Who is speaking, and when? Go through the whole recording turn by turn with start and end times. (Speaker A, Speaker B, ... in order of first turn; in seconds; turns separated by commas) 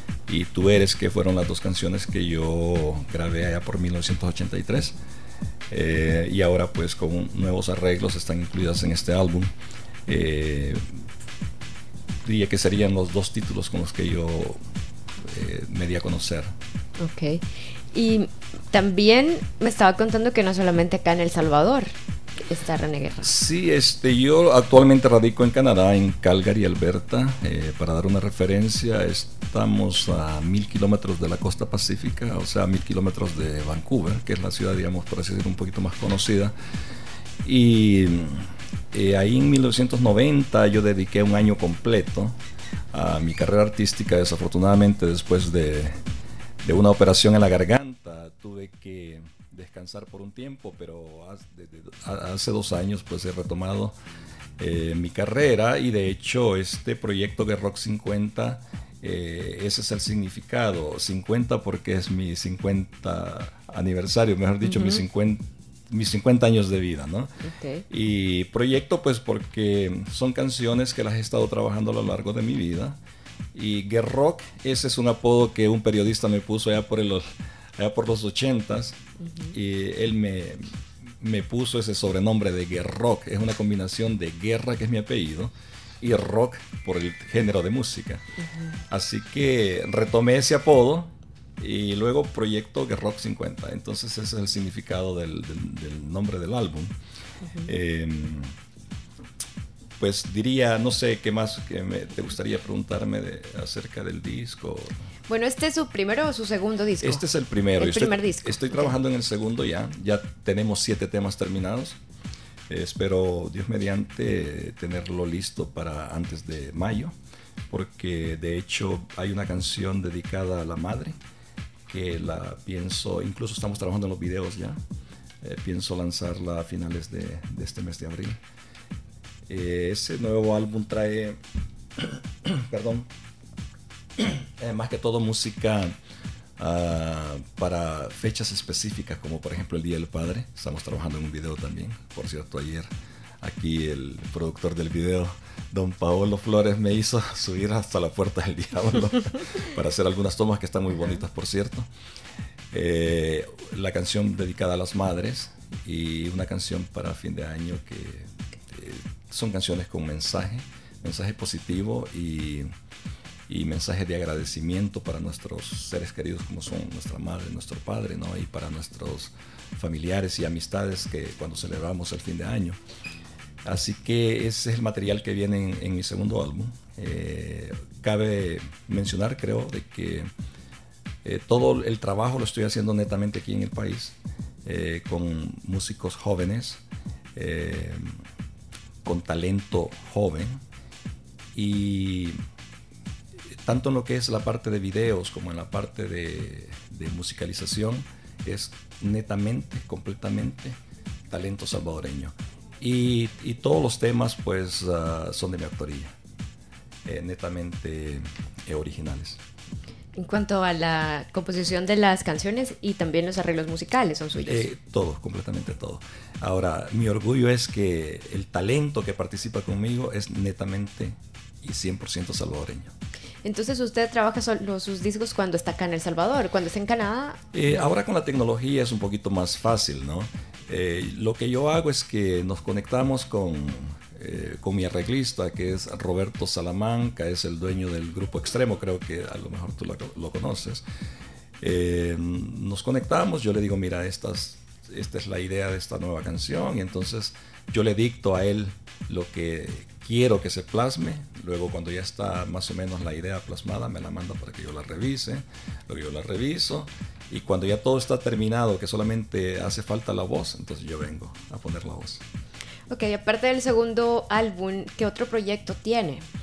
Speaker A: 0.3-5.0, Speaker A: 5.7-9.5, Speaker A: 10.1-10.8, Speaker A: 12.2-14.6, Speaker A: 15.3-16.5, Speaker B: 17.0-21.9, Speaker B: 22.4-23.3, Speaker A: 23.2-36.5, Speaker A: 37.4-42.4, Speaker A: 42.9-45.9, Speaker A: 46.6-53.9, Speaker A: 54.6-67.3, Speaker B: 64.6-65.0, Speaker B: 67.4-67.8, Speaker A: 67.9-73.0, Speaker A: 73.5-77.2, Speaker A: 77.8-79.0, Speaker B: 79.2-79.5, Speaker A: 79.5-88.2, Speaker B: 88.5-88.8, Speaker A: 88.9-96.9, Speaker B: 97.4-97.7, Speaker A: 97.6-98.5, Speaker A: 100.0-105.1, Speaker B: 105.3-107.2, Speaker A: 107.0-112.0, Speaker B: 107.8-108.9, Speaker A: 112.7-117.1, Speaker A: 117.7-121.2, Speaker A: 121.9-124.8, Speaker A: 125.4-128.4, Speaker A: 129.5-131.4, Speaker A: 131.9-133.1, Speaker A: 134.2-135.9, Speaker A: 136.6-142.9, Speaker A: 143.4-151.9, Speaker A: 152.7-162.7, Speaker A: 163.5-172.8, Speaker A: 173.6-180.3, Speaker A: 181.2-186.8, Speaker A: 187.3-188.2, Speaker A: 189.0-190.6, Speaker A: 191.5-192.4, Speaker A: 193.6-200.8, Speaker A: 201.3-206.1, Speaker A: 207.0-209.4, Speaker B: 210.1-214.7, Speaker A: 214.4-222.9, Speaker B: 223.4-227.4, Speaker A: 227.5-240.8, Speaker A: 241.6-262.2, Speaker B: 262.9-266.2